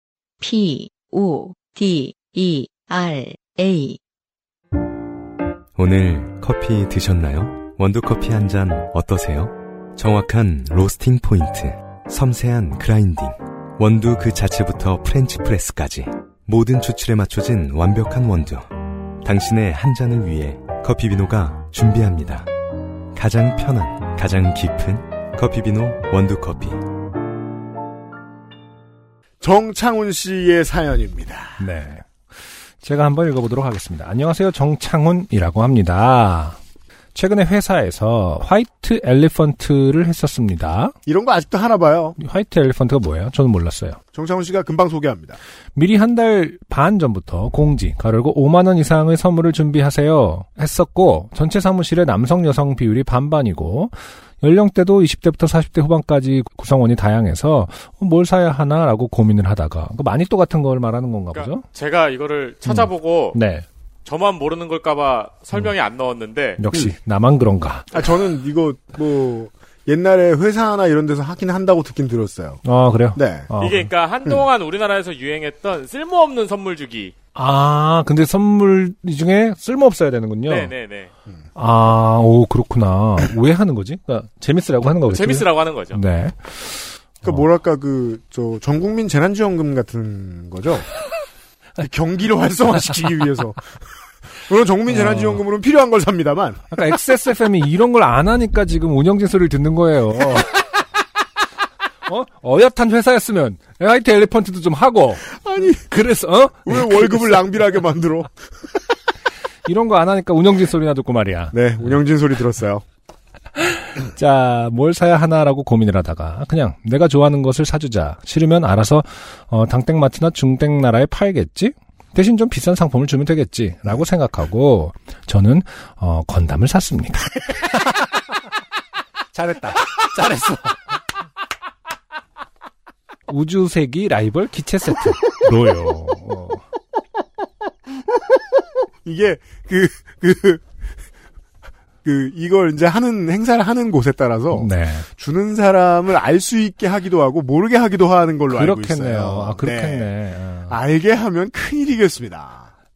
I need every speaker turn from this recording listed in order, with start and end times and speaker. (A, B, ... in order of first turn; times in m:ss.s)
0:00.4-0:04.0 A
0:05.8-0:22.5 B
0:23.1-0:26.8 B
0:29.4-0:31.6 C
0:31.6-0:36.6 D
0:37.1-0:40.9 D
0:41.0-0:42.2 C
0:42.2-0:44.0 D
0:44.1-0:45.4 C
0:45.7-1:01.6 D
1:01.3-1:03.4 E
1:02.6-1:03.6 D
1:04.0-1:06.6 E
1:06.6-1:07.9 D
1:07.9-1:12.6 C
1:12.6-1:13.9 D
1:13.1-1:13.5 C
1:13.6-1:17.1 E
1:17.3-1:20.7 D
1:20.4-1:21.1 E
1:21.6-1:27.4 D
1:25.1-1:26.0 E
1:27.2-1:30.9 C
1:31.8-1:33.8 C
1:34.4-1:36.8 C
1:34.9-1:35.4 D
1:36.7-1:40.6 D
1:42.0-1:47.4 D
1:45.2-1:45.8 C
1:46.6-1:48.3 C
1:49.6-1:52.0 D
1:51.5-1:52.8 C
1:53.6-2:07.9 D
2:09.3-2:10.8 D
2:13.3-2:16.6 D
2:19.0-2:20.6 C
2:22.0-2:30.1 C
2:24.5-2:25.1 D
2:28.5-2:30.8 D
2:30.7-2:32.7 C